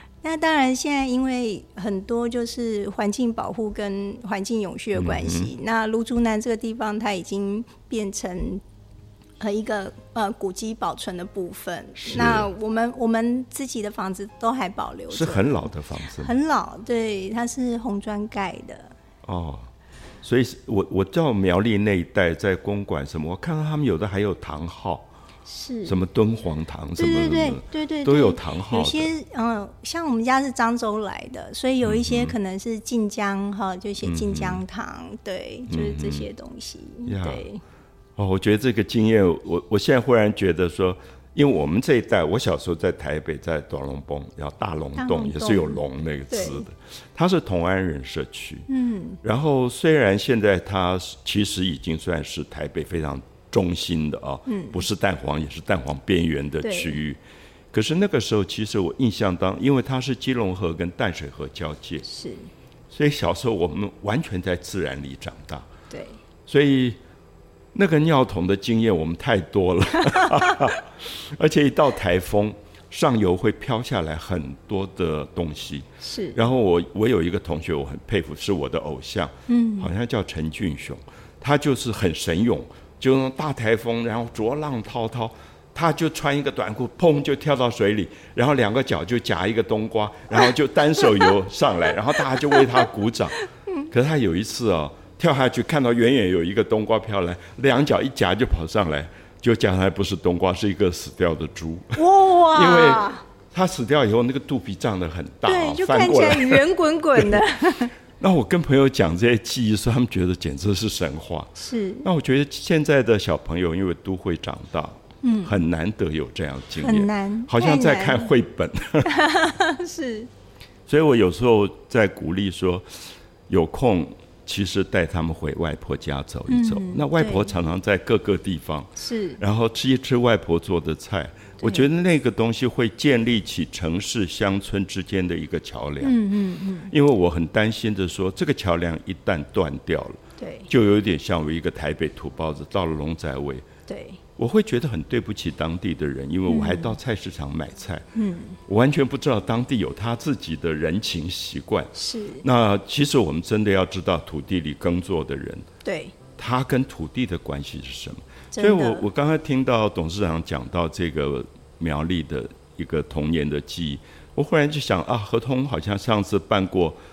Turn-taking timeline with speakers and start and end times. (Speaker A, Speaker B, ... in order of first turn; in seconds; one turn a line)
Speaker A: 0.2-8.6
Speaker B: 5.0-5.5
Speaker A: 9.4-15.5
Speaker B: 12.0-12.5
Speaker B: 15.1-16.3
Speaker A: 16.2-18.9
Speaker B: 19.2-19.7
Speaker B: 20.2-25.1
Speaker A: 25.5-26.0
Speaker B: 25.9-29.1
Speaker A: 27.0-37.6
Speaker B: 31.8-32.4
Speaker B: 34.0-34.6
Speaker B: 35.7-36.3
Speaker B: 37.1-37.5
Speaker B: 38.2-48.7
Speaker A: 45.0-46.6
Speaker A: 48.7-49.2
Speaker B: 49.2-57.2
Speaker A: 54.5-54.8
Speaker A: 56.6-57.0
Speaker B: 57.7-62.1
Speaker A: 62.0-62.5
Speaker B: 62.9-65.7
Speaker A: 65.9-66.2
Speaker B: 66.5-67.0
Speaker B: 67.7-93.4
Speaker A: 76.0-76.4
Speaker A: 79.5-79.9
Speaker A: 91.0-91.3
Speaker B: 93.9-107.4
Speaker A: 102.0-103.2
Speaker A: 105.5-107.9
Speaker B: 108.2-111.5
Speaker A: 111.6-112.1
Speaker B: 112.0-119.2
Speaker A: 115.2-115.5
Speaker A: 116.8-118.3
Speaker A: 119.1-120.3
Speaker B: 120.9-122.8
Speaker B: 123.5-136.2
Speaker A: 126.5-127.6
Speaker A: 129.0-129.4
Speaker A: 131.6-131.9
Speaker A: 136.0-136.9
Speaker B: 136.9-143.7
Speaker A: 140.4-140.7
Speaker A: 143.9-144.2
Speaker B: 144.4-148.0
Speaker A: 146.5-147.0
Speaker A: 148.2-148.6
Speaker B: 148.7-151.9
Speaker A: 151.9-152.4
Speaker B: 152.4-155.7
Speaker A: 155.8-156.2
Speaker B: 156.4-167.0
Speaker A: 158.5-159.1